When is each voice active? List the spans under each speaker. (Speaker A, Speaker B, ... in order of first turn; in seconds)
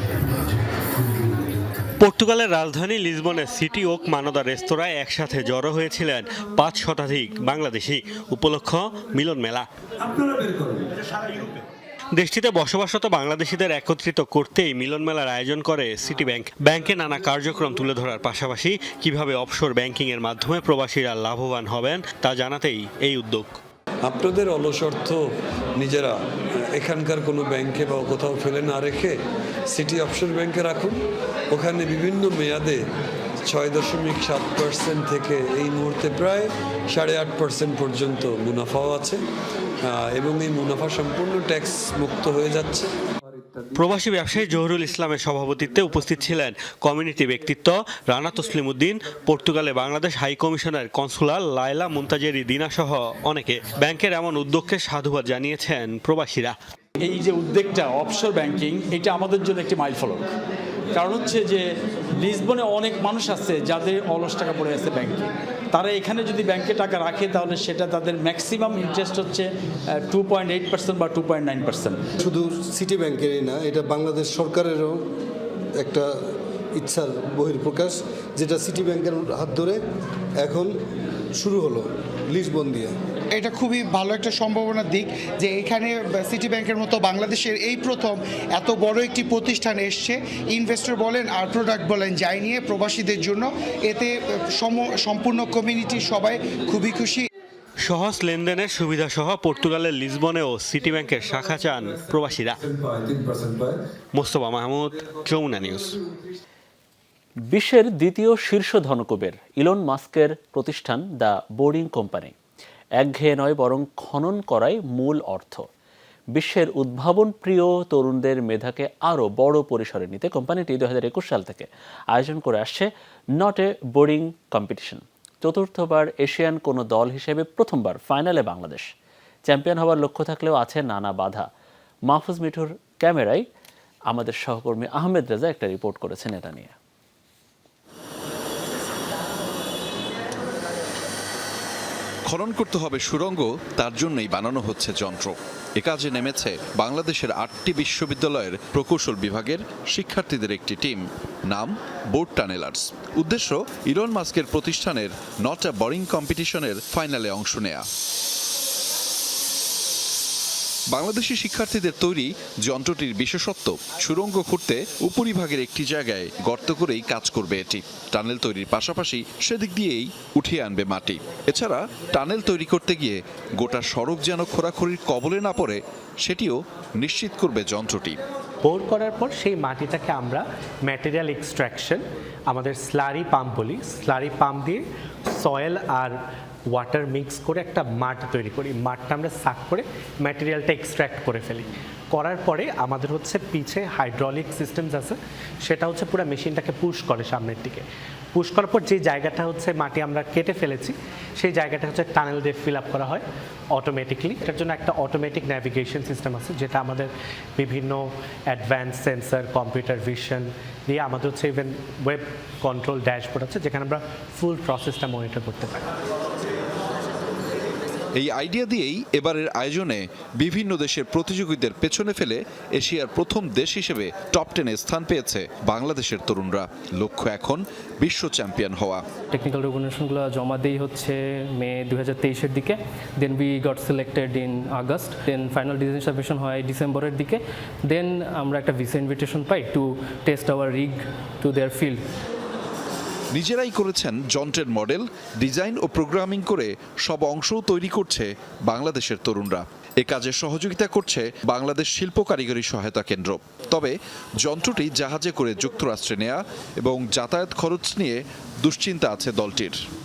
Speaker A: 2.0-9.7, 12.1-23.6, 43.8-56.5, 97.8-102.6, 104.1-106.0
Speaker B: 24.0-25.2, 25.8-29.2, 29.7-31.0, 31.5-32.8, 33.5-39.2, 39.8-42.9, 102.7-103.8
Speaker C: 57.0-60.2, 60.9-61.6, 62.2-72.0
Speaker D: 72.2-75.0, 75.8-76.1, 76.8-79.8, 80.4-80.7, 81.3-82.9
Speaker E: 83.3-97.3
Speaker F: 107.5-112.3, 113.0-115.6, 116.3-128.9, 129.5-131.5, 132.1-133.4, 134.1-136.7
Speaker G: 142.3-157.8, 160.9-178.2, 218.2-229.0, 243.3-259.7
Speaker H: 178.6-184.8, 185.3-186.1, 186.7-203.2, 203.7-215.8
Speaker I: 229.3-242.0